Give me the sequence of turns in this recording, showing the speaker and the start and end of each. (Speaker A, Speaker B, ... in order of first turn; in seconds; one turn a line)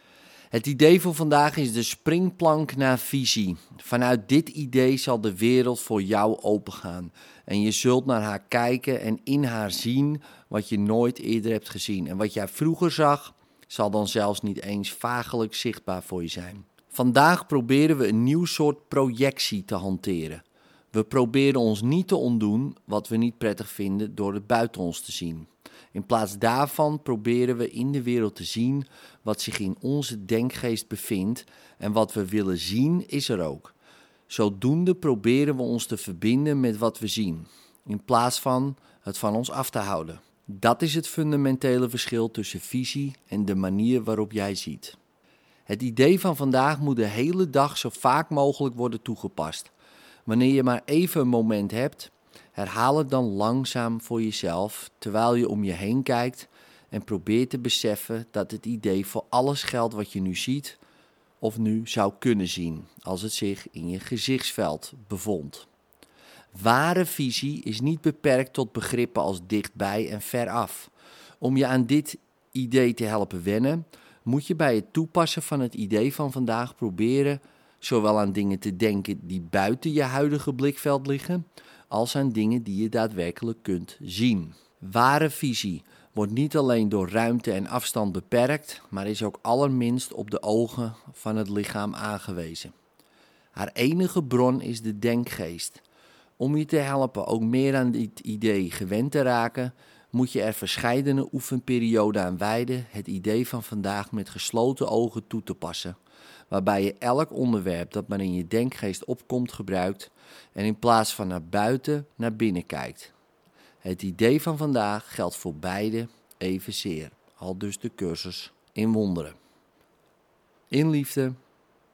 Speaker A: 0.5-33.7
Speaker A: 34.3-45.0
Speaker A: 45.7-49.7
Speaker A: 50.2-60.8
Speaker A: 61.4-65.7
Speaker A: 66.5-92.7
Speaker A: 93.5-95.8
Speaker A: 96.4-106.0
Speaker A: 106.5-113.1
Speaker A: 113.8-119.3
Speaker A: 120.7-121.3